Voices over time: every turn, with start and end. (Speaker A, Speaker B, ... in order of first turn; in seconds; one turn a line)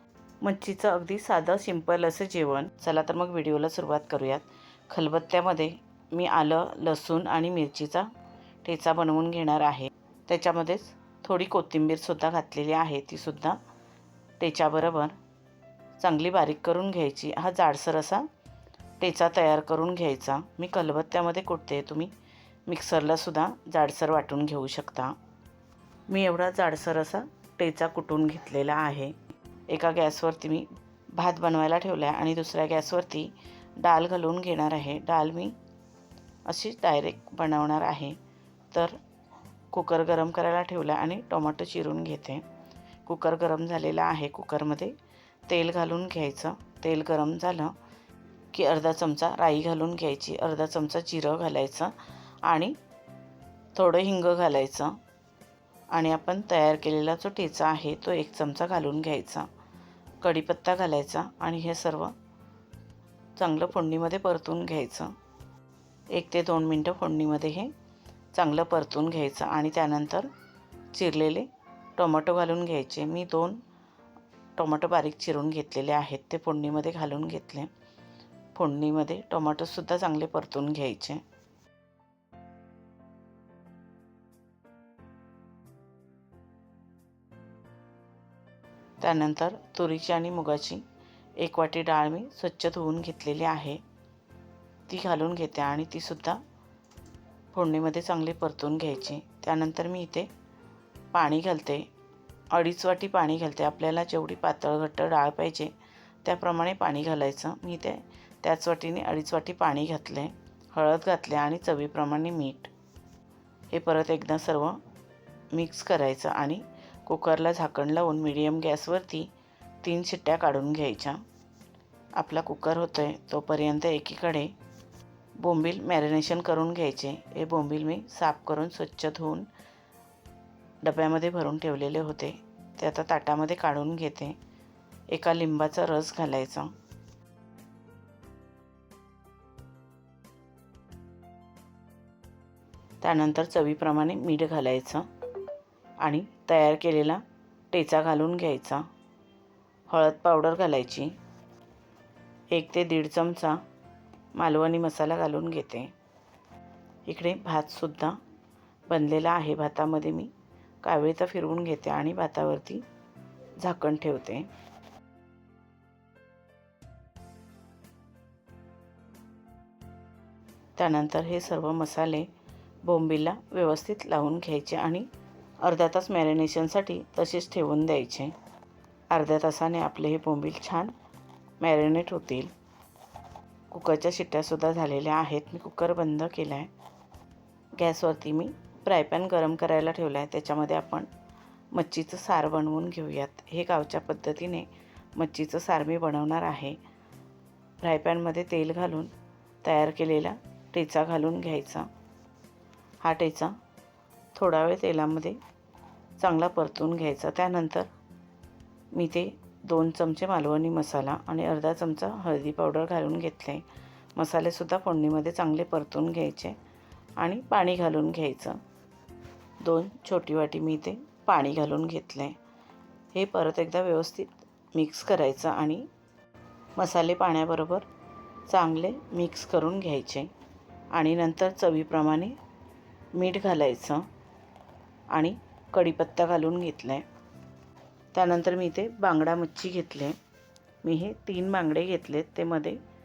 Speaker A: 0.4-8.1
Speaker A: 8.6-13.6
Speaker A: 14.4-15.2
Speaker A: 16.0-18.3
Speaker A: 19.0-22.1
Speaker A: 22.7-25.2
Speaker A: 26.1-29.2
Speaker A: 29.7-35.5
Speaker A: 36.5-38.2
Speaker A: 38.7-39.0
Speaker A: 39.7-42.5
Speaker A: 43.0-45.0
Speaker A: 45.5-47.8
Speaker A: 48.5-52.8
Speaker A: 53.7-55.0
Speaker A: 55.9-59.5
Speaker A: 60.2-62.1
Speaker A: 63.4-65.2
Speaker A: 66.1-67.7
Speaker A: 68.3-70.3
Speaker A: 70.9-73.6
Speaker A: 74.6-77.7
Speaker A: 78.5-81.2
Speaker A: 89.0-90.8
Speaker A: 91.4-93.8
Speaker A: 94.9-96.4
Speaker A: 97.5-100.3
Speaker A: 101.1-101.9
Speaker A: 102.5-112.7
Speaker A: 113.7-114.8
Speaker A: 115.5-121.2
Speaker A: 122.2-124.6
Speaker A: 125.4-129.5
Speaker A: 130.8-134.4
Speaker A: 135.1-136.8
Speaker A: 143.0-145.1
Speaker A: 146.0-148.9
Speaker A: 149.9-151.1
Speaker A: 152.5-153.6
Speaker A: 154.3-155.9
Speaker A: 157.1-158.2
Speaker A: 158.9-162.8
Speaker A: 163.6-164.5
Speaker A: 170.8-172.3
Speaker A: 172.8-175.1
Speaker A: 175.6-178.3
Speaker A: 179.1-180.9
Speaker A: 181.6-182.5
Speaker A: 183.7-186.7
Speaker A: 187.8-191.1
Speaker A: 191.7-196.8
Speaker A: 197.8-201.9
Speaker A: 203.0-203.5
Speaker A: 204.3-205.4
Speaker A: 206.2-207.9
Speaker A: 208.9-216.6
Speaker A: 217.2-218.6
Speaker A: 219.6-222.4
Speaker A: 223.1-225.9
Speaker A: 226.8-227.9
Speaker A: 228.5-230.3
Speaker A: 230.9-232.3
Speaker A: 233.1-234.1
Speaker A: 235.1-237.1
Speaker A: 238.1-240.2
Speaker A: 240.8-242.8